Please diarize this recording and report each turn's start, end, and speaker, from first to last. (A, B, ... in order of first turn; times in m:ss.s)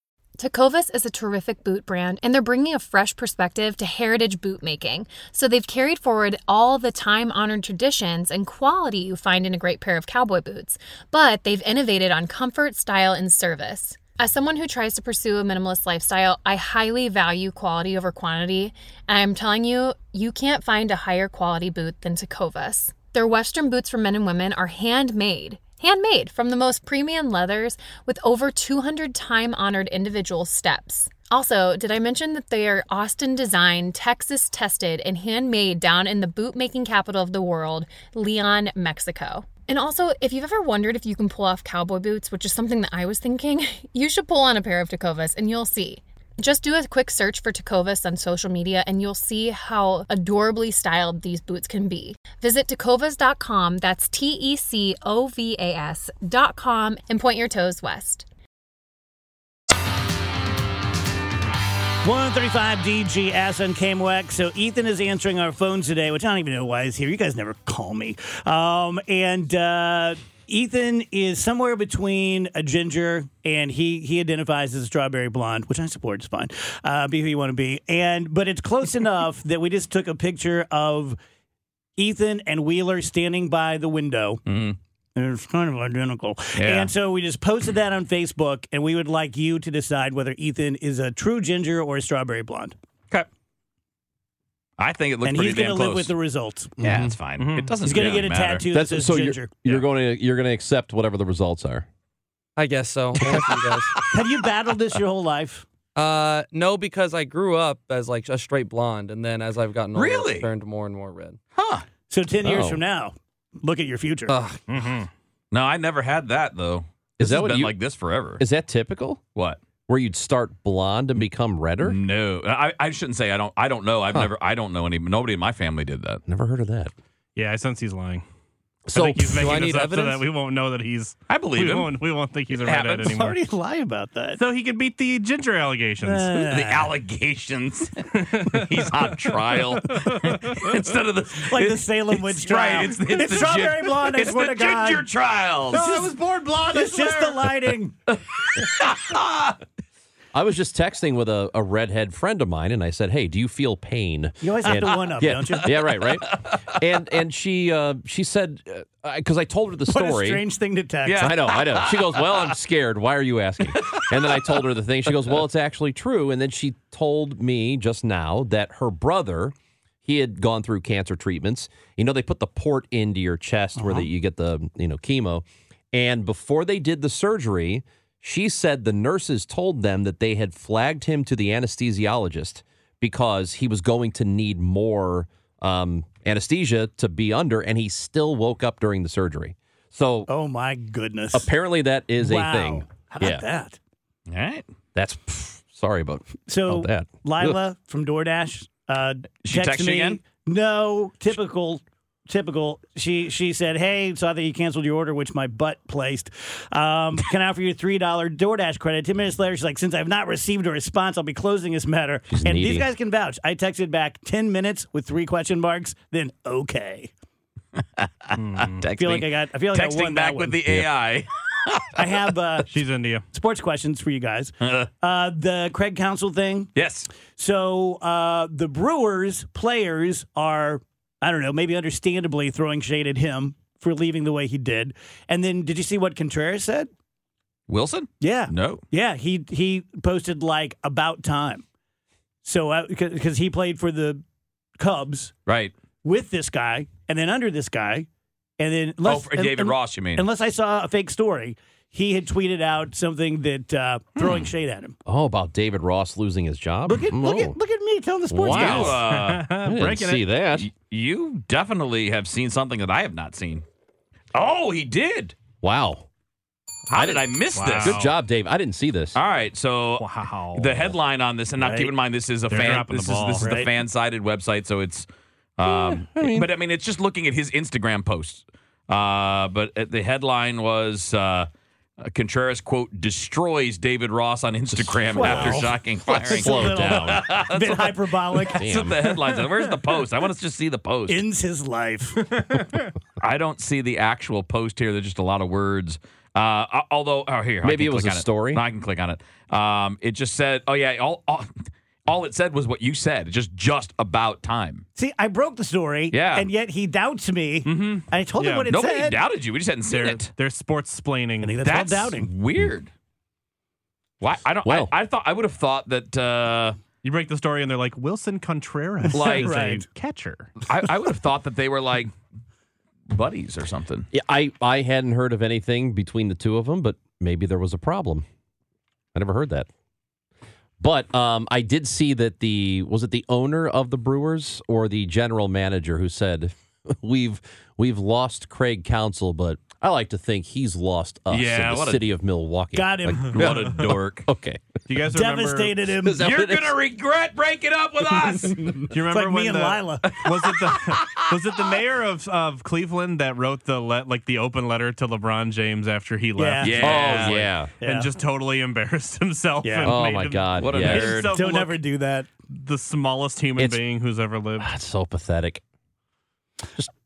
0:00.4-0:58.3 A
1:02.0-1:21.2 B
1:22.0-1:24.4 B
1:24.5-1:24.8 C
1:25.2-1:32.8 B
1:26.6-1:26.9 C
1:34.8-1:36.1 C
1:35.2-1:36.7 B
1:36.8-1:37.1 D
1:36.8-1:38.6 C
1:37.4-1:37.8 E
1:37.8-1:39.6 B
1:38.7-1:41.9 D
1:42.6-1:44.0 F
1:44.1-1:45.6 B
1:46.0-1:51.4 F
1:50.0-1:50.5 C
1:51.6-1:51.8 C
1:52.1-1:54.4 B
1:52.4-1:52.8 D
1:54.3-1:54.6 D
1:54.7-1:55.1 E
1:55.5-1:58.4 C
1:57.2-1:57.8 D
1:58.4-1:59.2 D
1:59.9-2:02.0 D
2:01.8-2:06.2 C
2:06.3-2:06.9 D
2:07.4-2:08.2 E
2:08.9-2:09.7 D
2:08.9-2:13.4 E
2:09.3-2:10.2 F
2:11.3-2:11.9 C
2:12.5-2:13.2 C
2:13.0-2:14.4 B
2:14.4-2:16.4 E
2:16.0-2:16.9 B
2:16.4-2:26.0 C
2:18.2-2:20.7 E
2:21.5-2:25.1 B
2:25.7-2:28.0 B
2:25.7-2:27.5 E
2:28.6-2:29.5 C
2:30.3-2:40.4 D
2:34.4-2:35.8 B
2:39.9-2:41.4 B
2:41.0-2:42.5 C
2:41.2-3:10.3 D
2:43.8-2:44.4 C
2:53.8-2:54.1 B
3:10.3-3:11.5 B
3:11.3-3:13.5 D
3:12.2-3:13.8 B
3:14.3-3:14.6 C
3:15.0-3:17.6 D
3:16.5-3:37.1 B
3:19.4-3:20.2 C
3:32.3-3:32.9 D
3:38.0-3:42.2 C
3:38.4-3:38.8 E
3:39.0-3:40.6 B
3:42.0-3:42.8 B
3:42.7-3:43.3 E
3:43.3-3:46.7 B
3:44.6-3:44.9 C
3:46.8-3:47.1 C
3:47.4-3:56.9 B
3:57.7-3:58.8 C
3:58.2-4:01.6 B
4:02.4-4:04.2 B
4:04.8-4:05.3 B
4:05.5-4:05.7 C
4:06.0-4:08.1 B
4:08.6-4:15.0 B
4:09.0-4:10.2 C
4:14.2-4:14.5 C
4:15.1-4:17.6 D
4:16.9-4:19.0 B
4:18.3-4:19.0 D
4:18.5-4:19.5 C
4:18.6-4:20.3 E
4:19.6-4:20.7 D
4:20.6-4:23.6 C
4:24.3-4:25.4 C
4:25.6-4:26.1 D
4:26.9-4:28.1 C
4:26.9-4:29.2 D
4:27.5-4:28.1 E
4:29.2-4:35.1 C
4:30.0-4:31.0 E
4:31.6-4:31.9 B
4:32.5-4:33.6 E
4:33.4-4:33.7 B
4:35.6-4:41.5 C
4:35.6-4:36.5 D
4:42.0-4:51.2 C
4:44.7-4:47.3 D
4:45.1-4:48.7 B
4:48.5-4:49.2 D
4:51.1-4:52.4 B
4:52.4-4:52.9 E
4:53.2-5:01.5 C
4:57.6-4:58.6 D
5:02.1-5:04.8 C
5:05.0-5:09.2 B
5:06.1-5:06.5 C
5:07.7-5:08.8 E
5:08.7-5:10.3 C
5:09.9-5:11.6 E
5:11.4-5:12.3 B
5:11.6-5:12.9 C
5:14.2-5:16.8 C
5:14.6-5:14.9 D
5:17.0-5:20.5 E
5:19.1-5:19.9 B
5:19.1-5:19.6 C
5:20.7-5:22.1 C
5:23.1-5:24.1 C
5:24.1-5:28.3 D
5:29.1-5:29.7 D
5:30.8-5:44.6 D
5:41.3-5:42.0 C
5:42.7-5:43.5 B
5:43.3-5:44.3 C
5:44.9-5:45.8 E
5:45.1-5:46.3 B
5:46.0-5:46.8 D
5:46.2-5:48.8 C
5:48.9-6:01.8 E
5:49.0-5:50.3 B
5:50.6-5:51.3 C
5:56.4-5:58.1 B
5:56.6-5:57.4 C
5:56.8-5:57.7 D
5:59.6-6:00.0 B
5:59.8-6:01.2 D
6:00.6-6:01.4 C
6:00.9-6:02.3 B
6:02.5-6:04.7 E
6:03.6-6:03.8 D
6:04.6-6:05.6 D